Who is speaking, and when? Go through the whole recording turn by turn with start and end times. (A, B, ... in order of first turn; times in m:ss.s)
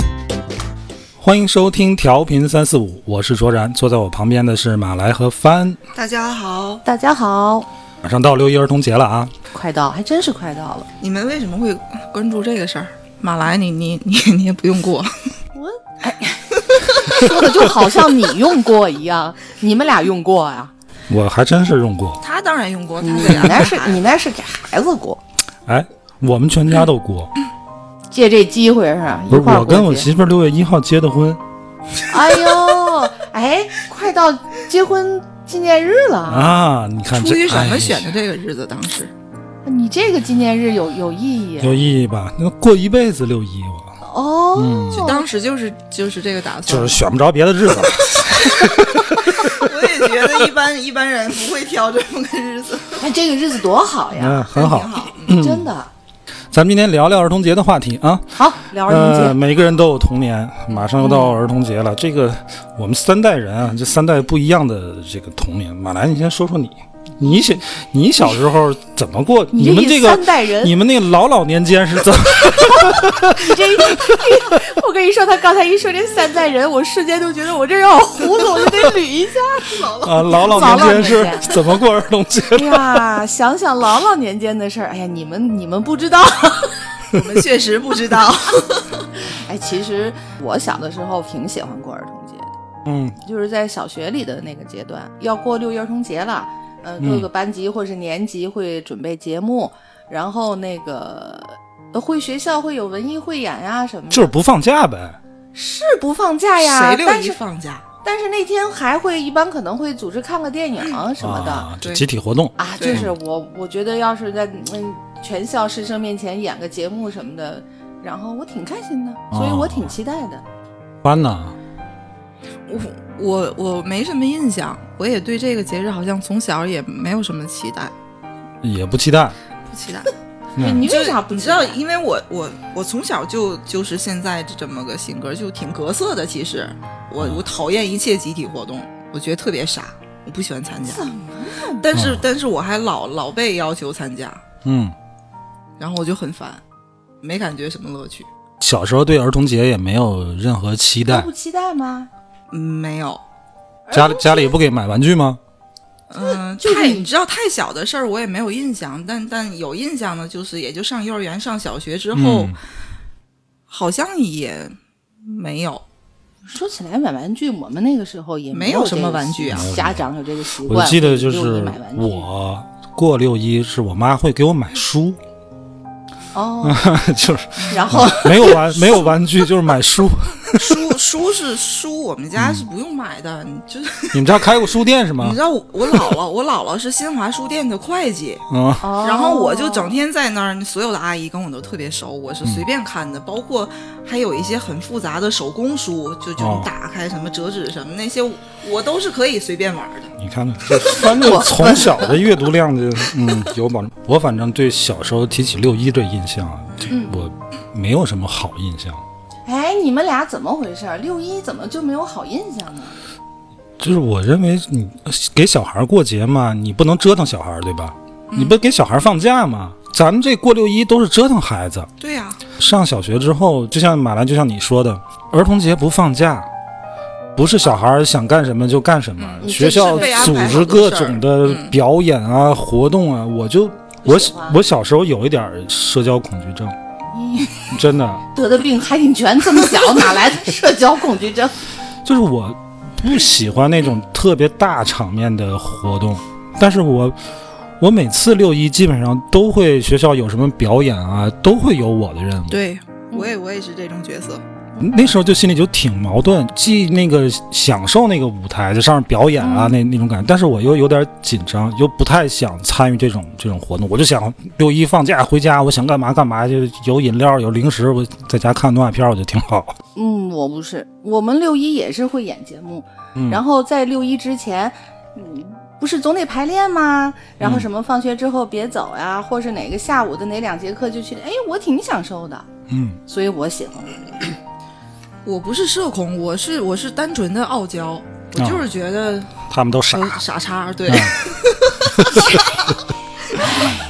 0:01.2-0:05.8 A
0:05.9-0:06.8 B
0:06.8-0:07.7 C
0:08.0-0:09.3 A
0:09.5-0:10.9 C
0:11.0-0:15.1 B
0:15.5-0:20.7 C
0:21.1-0:22.2 A
0:22.2-0:24.0 B
0:23.0-0:25.2 C
0:25.6-0:27.3 A
0:28.1-0:30.1 C
0:29.3-0:31.4 A
0:32.1-0:36.6 C
0:36.3-0:38.1 A
0:37.1-0:39.1 B
0:39.6-0:41.8 C
0:41.6-0:43.9 A
0:44.0-0:45.2 C
0:44.5-0:45.1 A
0:44.9-0:47.0 B
0:46.6-0:50.3 A
0:49.0-0:53.0 B
0:53.0-0:54.5 C
0:54.1-0:55.7 A
0:54.5-0:55.3 B
0:55.2-0:55.9 C
0:56.5-1:14.5 A
0:58.3-0:59.4 C
1:01.0-1:01.4 C
1:09.5-1:10.8 C
1:13.3-1:21.5 C
1:19.6-1:21.5 B
1:20.0-1:23.0 A
1:22.5-1:26.8 C
1:27.1-1:29.1 B
1:29.5-1:32.5 C
1:32.8-1:33.2 A
1:33.2-1:44.3 C
1:37.0-1:37.3 A
1:44.1-1:45.2 A
1:45.5-1:47.4 C
1:46.6-1:47.8 B
1:48.0-1:51.7 C
1:51.2-1:53.0 A
1:52.6-2:00.4 C
1:52.8-1:53.0 B
1:59.3-1:59.9 A
2:01.0-2:01.5 A
2:02.7-2:07.9 B
2:08.6-2:09.4 A
2:09.7-2:10.1 B
2:10.6-2:10.9 A
2:10.6-2:11.8 C
2:10.8-2:21.1 B
2:20.9-2:21.9 C
2:21.8-2:24.4 B
2:21.9-2:22.2 A
2:24.6-2:24.9 A
2:25.8-2:26.6 B
2:27.2-2:28.3 B
2:28.6-2:31.3 A
2:31.0-2:32.1 C
2:32.5-2:33.2 B
2:33.9-2:34.6 C
2:33.9-2:35.4 A
2:36.1-2:42.6 B
2:36.2-2:37.1 C
2:42.1-2:42.6 A
2:43.7-2:45.8 B
2:46.4-2:52.3 C
2:48.5-2:49.7 B
2:49.5-2:50.0 A
2:50.6-2:55.2 A
2:56.3-2:56.9 C
2:56.6-3:00.9 A
2:57.7-2:59.1 C
3:00.5-3:04.6 B
3:02.4-3:02.6 A
3:04.1-3:05.4 A
3:05.2-3:08.4 B
3:08.5-3:08.9 A
3:08.8-3:10.0 C
3:09.0-3:20.1 B
3:16.4-3:16.7 A
3:20.2-3:29.0 A
3:20.8-3:21.1 B
3:20.9-3:22.2 C
3:26.9-3:27.2 C
3:29.4-3:32.9 C
3:33.8-3:41.9 A
3:38.3-3:38.6 B
3:42.0-3:42.4 B
3:42.6-3:46.5 A
3:47.4-3:56.7 A
3:49.2-3:51.7 B
3:49.4-3:50.7 C
3:54.0-3:54.6 C
3:57.1-3:57.8 C
3:57.7-3:58.2 A
3:58.3-4:01.5 C
4:02.0-4:07.2 A
4:07.8-4:12.6 A
4:12.5-4:14.4 B
4:14.8-4:29.8 A
4:19.4-4:19.8 C
4:29.9-4:42.4 C
4:33.1-4:33.4 A
4:37.4-4:37.6 A
4:42.7-4:43.0 A
4:43.1-4:44.3 C
4:45.2-4:49.4 B
4:48.4-4:48.7 A
4:49.5-4:50.2 A
4:49.9-4:52.6 B
4:50.9-4:51.3 A
4:51.8-4:52.6 A
4:53.3-4:53.7 B